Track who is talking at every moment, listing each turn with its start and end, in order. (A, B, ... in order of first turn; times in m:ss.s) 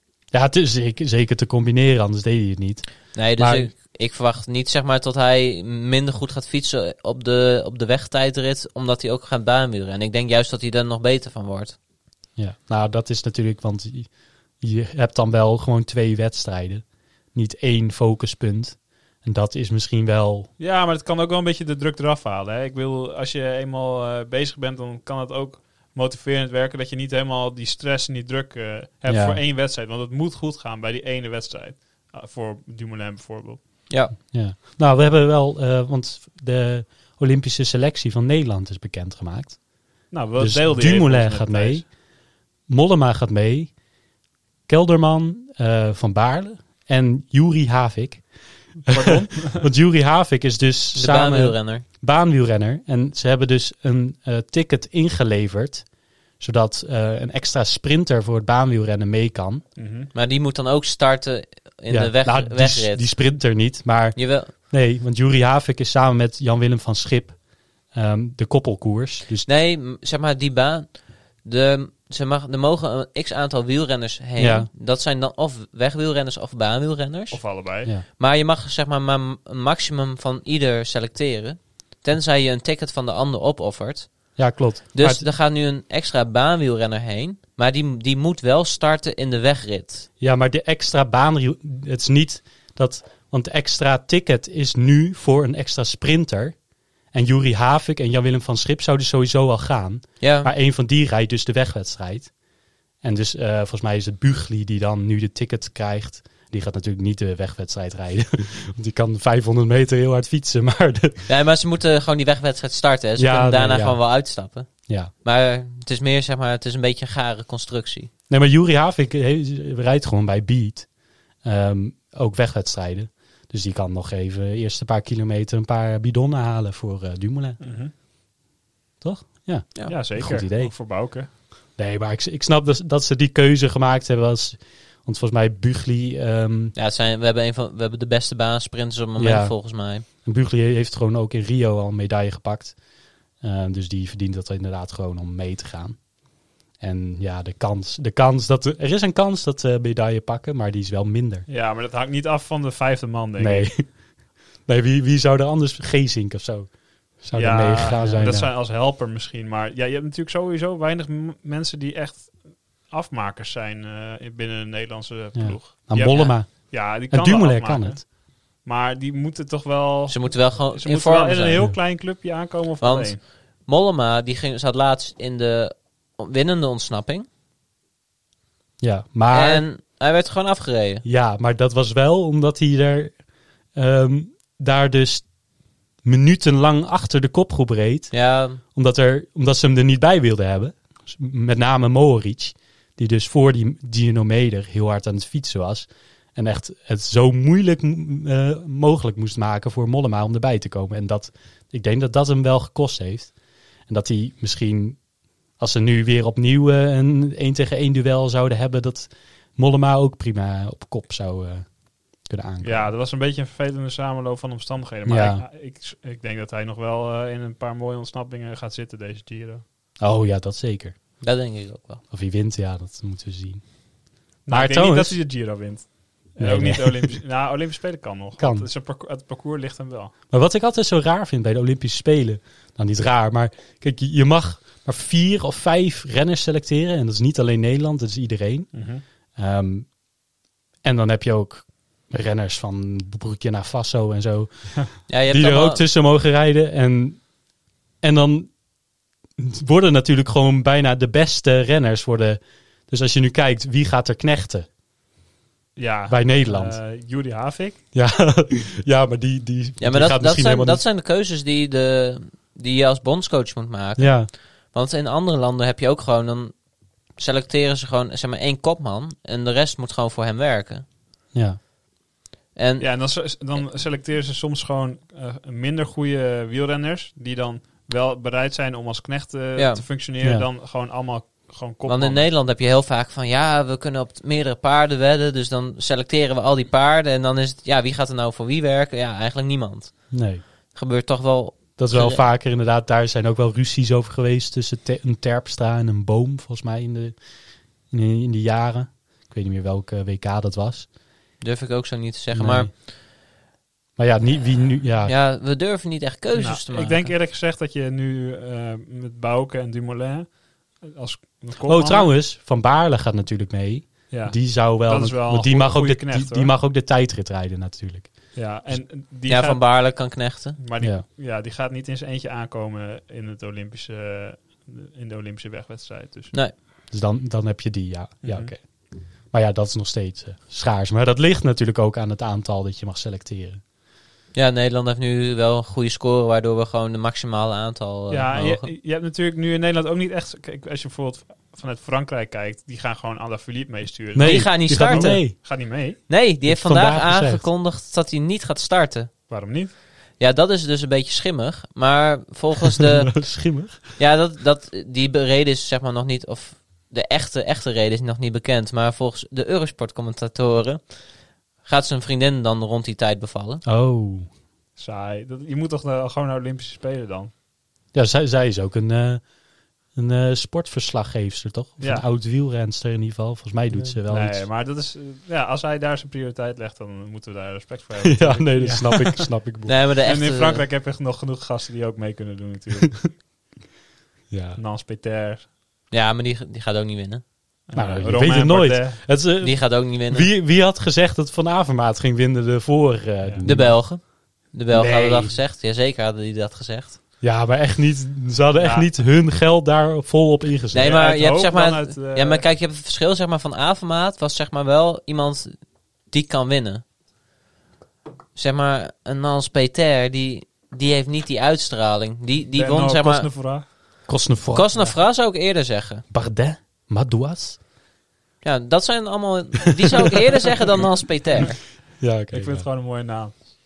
0:00.3-0:03.7 A
0:03.1-0:11.8 B
0:12.4-0:20.5 A
0:20.6-0:33.6 C
0:29.1-0:29.4 A
0:33.9-0:34.2 B
0:34.2-0:39.6 A
0:40.1-0:41.8 C
0:40.4-0:41.9 A
0:42.7-0:43.7 A
0:44.7-0:48.3 A
0:48.9-0:55.9 A
0:48.9-0:49.7 C
0:51.0-0:51.8 B
0:56.4-0:59.6 A
0:59.8-1:00.1 C
1:00.1-1:03.1 B
1:01.9-1:07.4 A
1:04.2-1:04.5 B
1:07.9-1:09.5 A
1:09.4-1:17.4 B
1:14.4-1:14.7 A
1:17.3-1:17.9 C
1:18.2-1:30.1 B
1:24.4-1:25.2 A
1:30.2-1:36.6 A
1:37.1-1:42.3 A
1:40.2-1:40.5 B
1:43.0-1:51.3 A
1:51.3-1:58.1 B
1:53.2-1:54.0 A
1:54.9-1:55.1 A
1:58.3-2:00.9 A
2:01.4-2:07.6 A
2:07.6-2:07.9 C
2:09.0-2:10.7 A
2:09.9-2:11.3 C
2:11.8-2:16.8 A
2:16.8-2:20.0 B
2:19.2-2:22.8 A
2:23.4-2:26.0 A
2:26.8-2:31.5 A
2:31.5-2:33.7 C
2:33.4-2:34.0 A
2:34.7-2:38.5 A
2:37.3-2:53.2 C
2:45.4-2:48.0 A
2:50.1-2:51.7 B
2:52.8-2:57.3 B
2:58.8-2:59.7 A
2:59.3-3:01.0 B
3:01.0-3:03.2 A
3:03.8-3:05.3 A
3:06.0-3:23.3 A
3:08.1-3:08.6 B
3:23.9-3:25.0 A
3:25.6-3:32.9 A
3:32.6-3:39.6 C
3:35.1-3:35.4 A
3:40.0-3:41.0 A
3:41.2-3:42.0 B
3:42.1-3:43.6 A
3:44.5-3:50.1 C
3:44.5-3:45.2 A
3:46.4-3:47.1 A
3:48.4-3:48.7 A
3:50.3-3:58.8 A
3:58.7-3:59.0 C
3:59.4-4:00.0 A
4:00.8-4:07.3 A
4:05.1-4:05.8 B
4:08.0-4:08.6 A
4:09.4-4:14.7 A
4:15.8-4:17.8 C
4:16.1-4:16.8 A
4:17.9-4:20.8 A
4:19.8-4:26.6 B
4:24.0-4:24.3 A
4:27.2-4:30.8 B
4:31.3-4:31.6 A
4:32.6-4:32.9 B
4:32.8-4:42.2 C
4:39.6-4:39.8 B
4:40.2-4:40.5 A
4:41.9-4:50.2 B
4:50.1-4:50.4 A
4:50.7-4:52.2 B
4:51.8-4:57.2 A
4:57.9-5:00.9 A
5:01.4-5:02.7 B
5:02.3-5:02.7 A
5:04.0-5:05.2 A
5:05.0-5:07.1 B
5:06.4-5:12.1 C
5:11.7-5:18.8 A
5:14.1-5:16.5 C
5:18.4-5:20.0 C
5:19.3-5:20.6 B
5:20.6-5:26.3 C
5:26.9-5:33.6 A
5:28.2-5:28.5 C
5:34.3-5:38.7 B
5:38.1-5:46.0 C
5:44.1-5:45.4 A
5:44.2-5:45.5 B
5:46.1-5:49.1 B
5:46.4-5:47.4 A
5:49.3-5:49.7 C
5:50.2-5:53.3 B
5:52.8-5:53.9 A
5:54.0-6:01.0 B
6:01.6-6:03.6 B
6:03.6-6:04.3 A
6:04.8-6:07.3 C
6:07.9-6:09.3 A
6:09.9-6:14.4 A
6:11.8-6:12.0 C
6:14.1-6:19.3 C
6:18.0-6:19.8 A
6:19.7-6:20.6 B
6:20.0-6:23.2 C
6:24.3-6:24.6 A
6:24.6-6:25.5 C
6:25.9-6:27.2 B
6:27.7-6:29.0 C
6:27.7-6:34.0 A
6:29.4-6:30.3 B
6:33.4-6:37.0 B
6:34.7-6:35.4 A
6:37.2-6:41.0 A
6:38.6-6:38.9 C
6:40.7-6:46.8 B
6:40.8-6:42.4 C
6:48.4-6:53.3 B
6:52.5-6:53.6 C
6:54.1-6:54.8 A
6:54.5-6:56.0 B
6:56.1-6:57.6 A
6:58.4-7:01.6 B
7:02.0-7:02.7 A
7:02.3-7:03.4 C